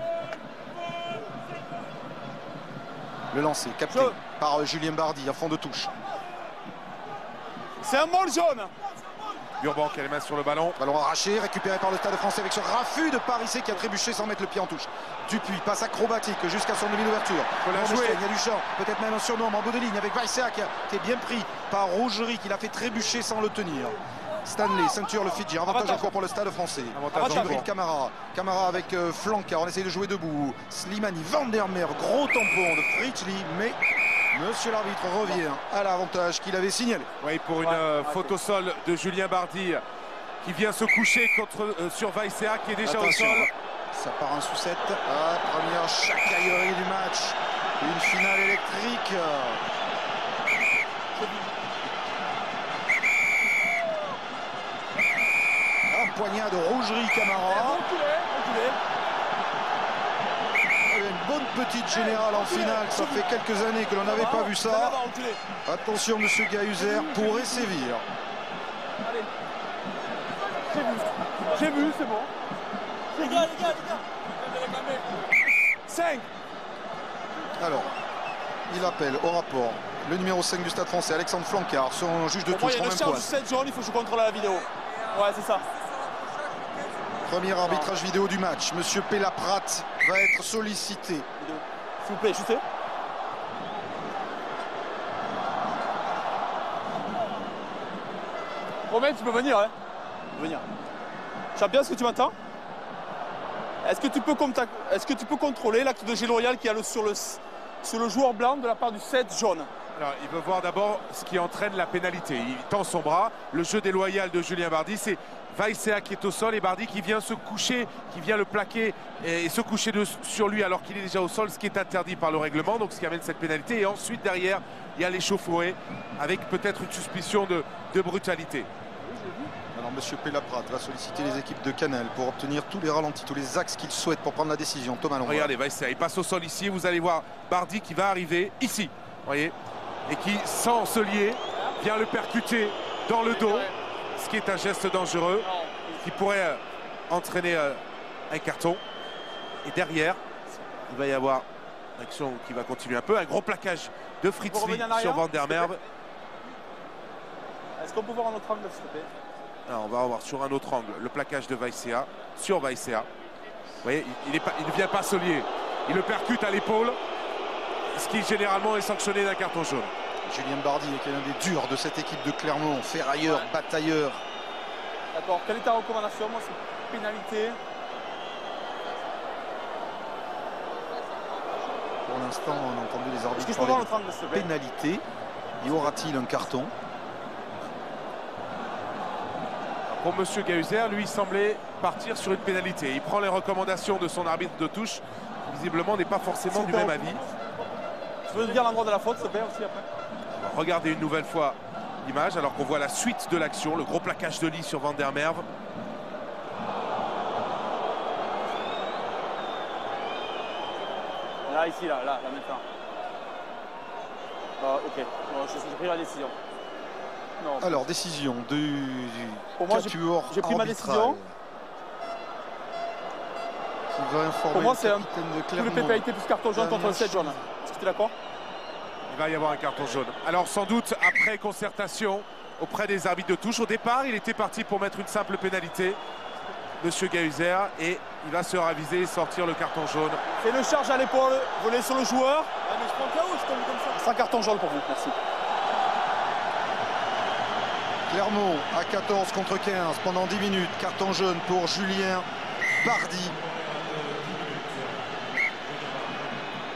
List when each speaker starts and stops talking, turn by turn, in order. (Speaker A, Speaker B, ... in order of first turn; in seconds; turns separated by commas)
Speaker A: 3.3-5.9, Speaker B: 3.9-4.2, Speaker B: 7.8-8.7, Speaker C: 9.6-10.8, Speaker A: 10.8-33.8, Speaker C: 17.6-18.2, Speaker B: 25.7-26.1, Speaker C: 26.9-27.7, Speaker B: 27.1-27.6, Speaker A: 34.3-37.1, Speaker C: 37.2-39.8, Speaker B: 37.6-38.3, Speaker C: 40.4-43.5, Speaker A: 42.8-49.6, Speaker B: 51.2-51.5, Speaker A: 55.9-57.8, Speaker B: 57.5-58.8, Speaker A: 60.9-65.0, Speaker B: 61.9-63.2, Speaker B: 64.0-65.4, Speaker A: 65.7-68.0, Speaker B: 66.8-67.7, Speaker B: 70.7-72.3, Speaker B: 73.1-75.1, Speaker B: 75.9-76.3, Speaker A: 77.6-77.9, Speaker A: 78.7-83.3, Speaker B: 82.5-85.7, Speaker A: 87.2-91.3, Speaker B: 87.6-88.0, Speaker B: 91.4-92.6, Speaker B: 98.9-99.7, Speaker B: 100.4-100.7, Speaker B: 101.6-102.3, Speaker B: 103.8-109.7, Speaker C: 110.0-128.7, Speaker B: 129.0-129.5, Speaker A: 129.7-135.5, Speaker C: 135.2-139.5, Speaker C: 140.1-145.5, Speaker B: 143.3-143.7, Speaker B: 145.4-146.0, Speaker C: 146.0-148.8, Speaker C: 149.6-150.2, Speaker C: 150.9-151.4, Speaker C: 152.0-155.8, Speaker B: 154.4-155.7, Speaker B: 157.8-159.1, Speaker C: 159.7-163.1, Speaker C: 163.8-167.0, Speaker C: 167.9-169.9, Speaker A: 170.3-174.2, Speaker B: 175.1-177.6, Speaker A: 182.1-185.0, Speaker B: 183.4-184.5, Speaker A: 185.6-186.7, Speaker C: 189.9-197.2, Speaker B: 196.5-197.3, Speaker B: 198.3-199.9, Speaker C: 200.4-205.4, Speaker B: 211.5-212.6, Speaker B: 214.6-216.4, Speaker B: 217.4-217.8, Speaker A: 217.6-221.3, Speaker B: 219.6-221.2, Speaker A: 223.9-227.4, Speaker B: 224.5-228.1, Speaker C: 229.1-236.0, Speaker C: 236.8-240.2, Speaker B: 240.4-245.2, Speaker A: 248.1-252.3, Speaker A: 252.8-253.4